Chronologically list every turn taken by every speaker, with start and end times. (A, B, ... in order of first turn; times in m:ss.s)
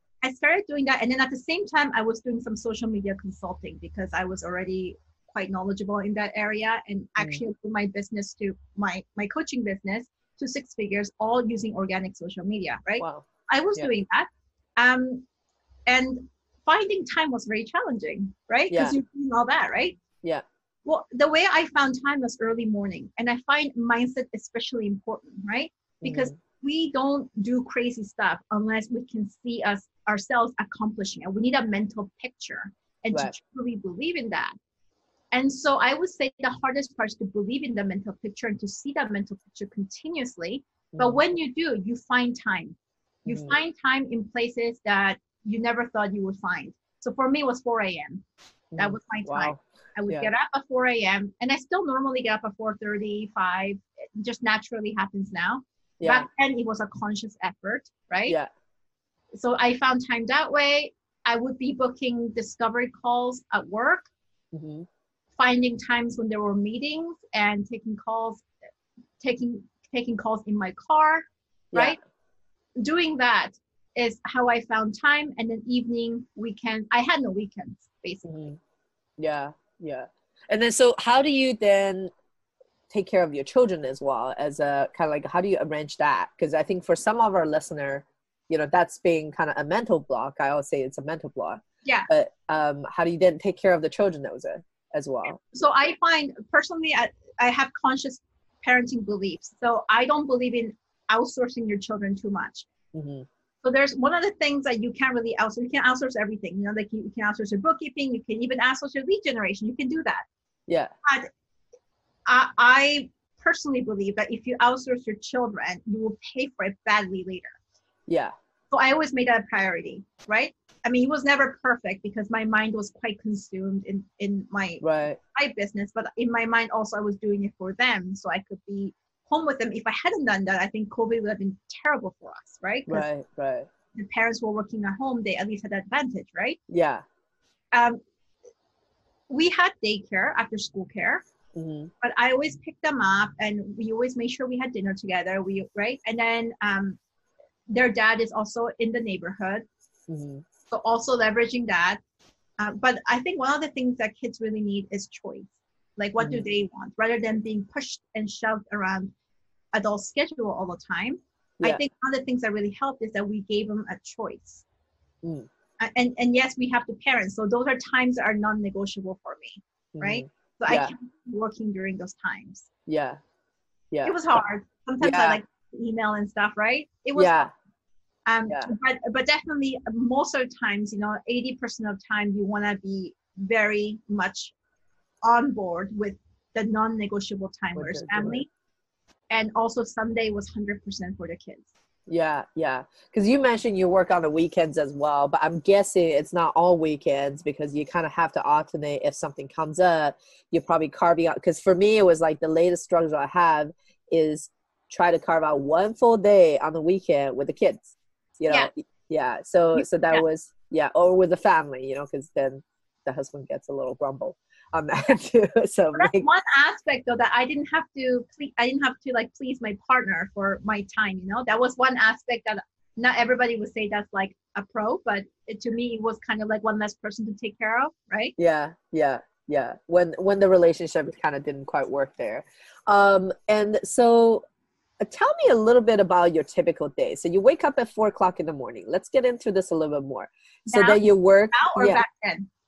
0:00.2-0:15.2 A
0:13.0-0:13.9 B
0:15.9-0:20.0 A
0:18.7-0:19.0 B
0:20.9-0:34.6 A
0:26.0-0:26.3 B
0:35.3-0:48.2 A
0:40.9-0:41.2 B
0:43.2-0:43.5 B
0:48.7-0:50.3 B
0:48.8-0:58.4 A
0:56.0-0:56.3 B
0:59.3-1:04.1 A
1:04.5-1:04.9 B
1:05.4-1:08.4 A
1:09.2-1:12.0 A
1:12.8-1:18.5 A
1:18.2-1:18.6 B
1:19.2-1:22.1 B
1:22.9-1:35.4 B
1:35.4-1:42.7 A
1:42.9-1:43.3 B
1:43.6-1:50.2 A
1:51.0-1:51.3 A
1:52.3-1:57.6 A
1:58.1-1:58.3 B
1:58.7-2:04.8 A
2:04.8-2:05.2 B
2:05.3-2:13.1 A
2:12.9-2:13.7 B
2:14.0-2:16.6 A
2:16.7-2:17.0 B
2:17.7-2:18.0 A
2:19.3-2:21.2 A
2:21.6-2:21.9 B
2:22.0-2:27.0 A
2:27.7-2:29.7 A
2:30.1-2:30.4 B
2:30.7-2:32.0 A
2:32.6-2:39.1 A
2:36.2-2:36.4 B
2:39.7-2:44.6 A
2:45.2-2:45.5 B
2:45.8-2:52.7 A
2:50.0-2:50.9 B
2:52.9-2:53.2 B
2:53.9-2:54.4 B
2:54.0-2:57.4 A
2:55.0-2:55.4 B
2:57.1-2:57.5 B
2:58.2-3:04.5 A
3:05.2-3:08.5 A
3:07.8-3:08.4 B
3:09.3-3:11.7 A
3:12.1-3:36.3 B
3:29.7-3:30.2 A
3:36.0-3:48.4 A
3:48.4-3:54.4 B
3:55.0-4:02.0 B
4:00.7-4:02.5 A